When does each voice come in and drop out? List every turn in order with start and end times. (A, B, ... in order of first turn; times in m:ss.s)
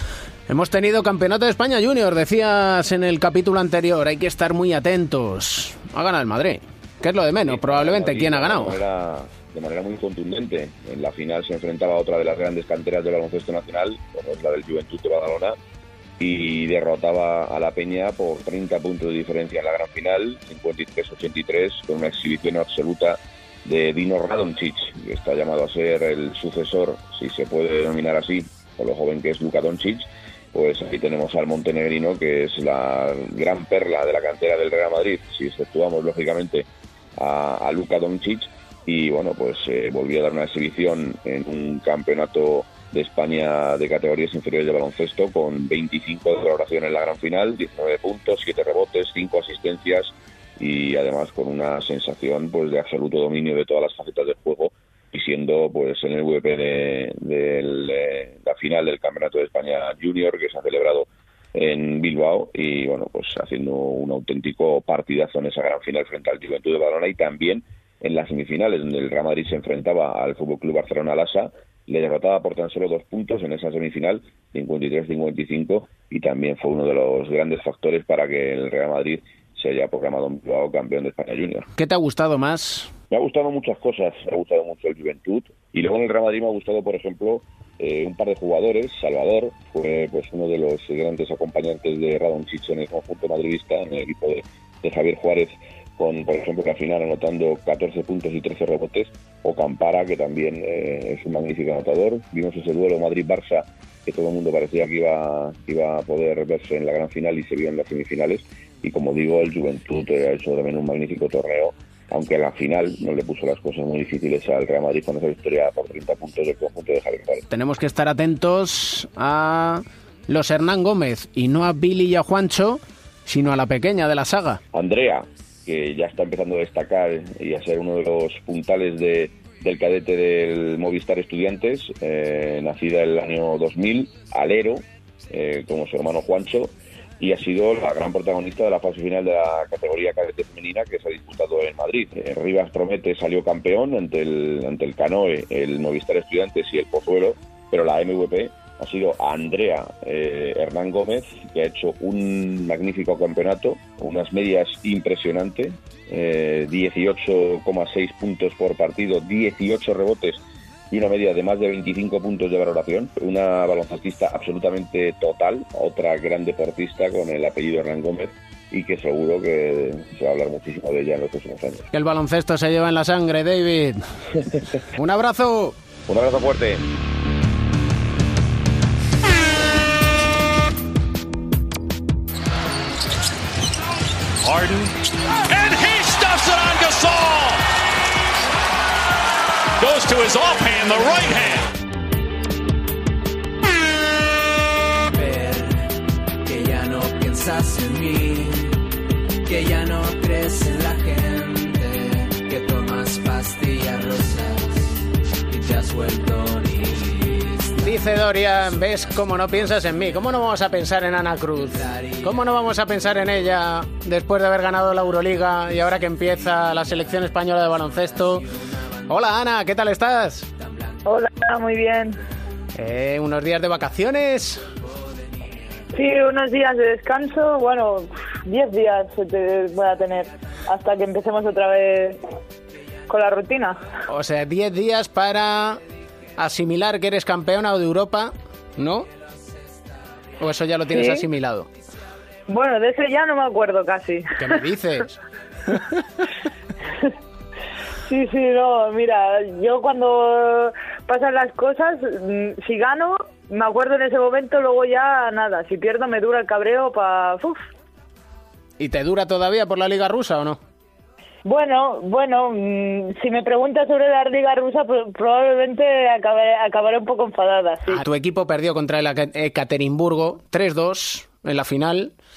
0:00.5-0:08.8 A
0:07.4-0:15.6 B
0:16.2-1:21.7 B
1:21.8-1:22.9 A
1:23.1-1:57.4 B
1:57.5-2:04.6 A
2:04.7-2:51.8 B
2:51.9-2:54.1 A
2:54.9-2:55.8 A
2:56.1-2:56.8 B
3:04.4-3:04.9 C
3:05.5-3:07.6 C
3:09.8-3:11.7 C
3:15.1-3:15.8 D
3:16.4-3:18.7 D
3:19.4-3:24.8 D
3:25.5-3:28.0 D
3:27.8-3:38.5 A
3:31.8-3:32.1 D
3:39.1-3:40.5 A
3:41.0-3:42.2 E
3:42.7-3:44.6 A
3:45.9-3:52.2 E
3:53.1-3:53.9 E
3:54.1-3:55.8 A
3:56.4-3:59.1 A
4:00.4-4:01.7 A
4:00.9-4:01.2 E
4:02.5-4:04.6 E
4:04.4-4:05.2 A
4:08.0-4:17.6 E
4:18.8-4:20.6 A
4:21.4-4:28.0 E
4:27.9-4:32.1 A